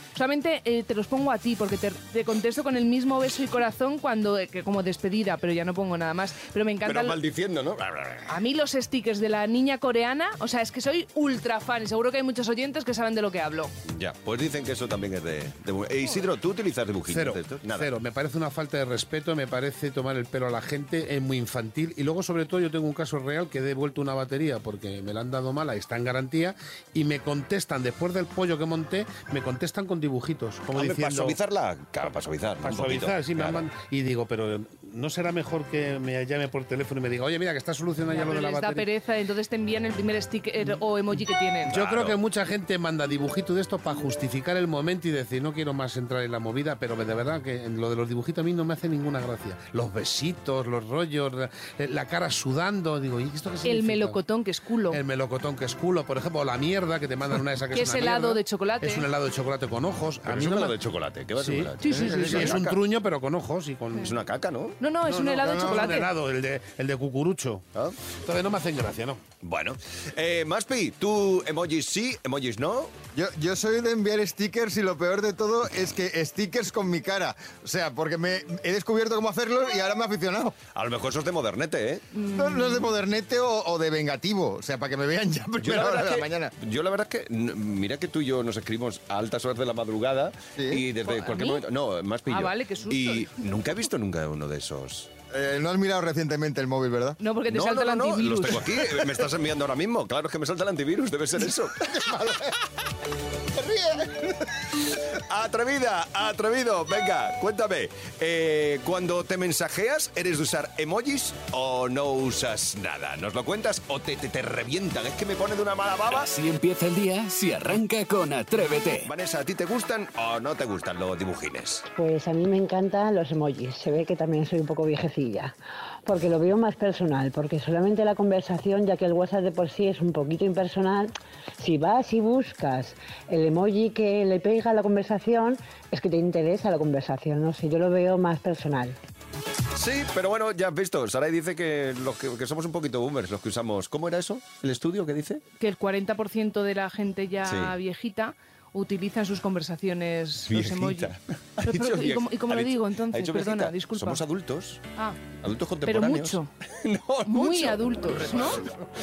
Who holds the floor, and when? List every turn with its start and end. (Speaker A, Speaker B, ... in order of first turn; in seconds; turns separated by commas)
Speaker A: 0.1-7.2, Speaker B: 6.8-8.3, Speaker A: 8.3-13.7, Speaker B: 13.9-17.9, Speaker C: 17.1-31.4, Speaker B: 30.7-33.6, Speaker C: 32.6-38.9, Speaker A: 38.1-41.8, Speaker B: 41.7-42.2, Speaker C: 41.7-54.2, Speaker A: 53.6-55.0, Speaker C: 54.9-60.8, Speaker A: 57.7-59.0, Speaker B: 60.2-62.8, Speaker C: 61.4-64.1, Speaker A: 61.8-62.5, Speaker B: 64.0-64.8, Speaker A: 64.8-66.1, Speaker C: 65.0-67.6, Speaker D: 65.5-65.9, Speaker C: 68.2-69.2, Speaker B: 69.4-72.9, Speaker D: 73.1-80.6, Speaker B: 80.7-82.0, Speaker A: 82.1-82.9, Speaker D: 82.3-86.5, Speaker B: 85.6-95.1, Speaker D: 90.6-90.8, Speaker A: 91.0-91.6, Speaker A: 92.3-93.3, Speaker D: 95.3-97.2, Speaker A: 97.2-98.7, Speaker B: 97.5-101.8, Speaker D: 101.8-102.5, Speaker D: 103.5-104.3, Speaker B: 105.2-116.3, Speaker E: 116.1-119.1, Speaker B: 119.0-121.8, Speaker F: 121.9-125.5, Speaker F: 126.0-138.9, Speaker B: 139.7-145.4, Speaker A: 145.6-154.2, Speaker B: 147.4-147.8, Speaker B: 150.5-154.8, Speaker B: 155.4-158.5, Speaker A: 155.8-156.5, Speaker A: 157.2-158.6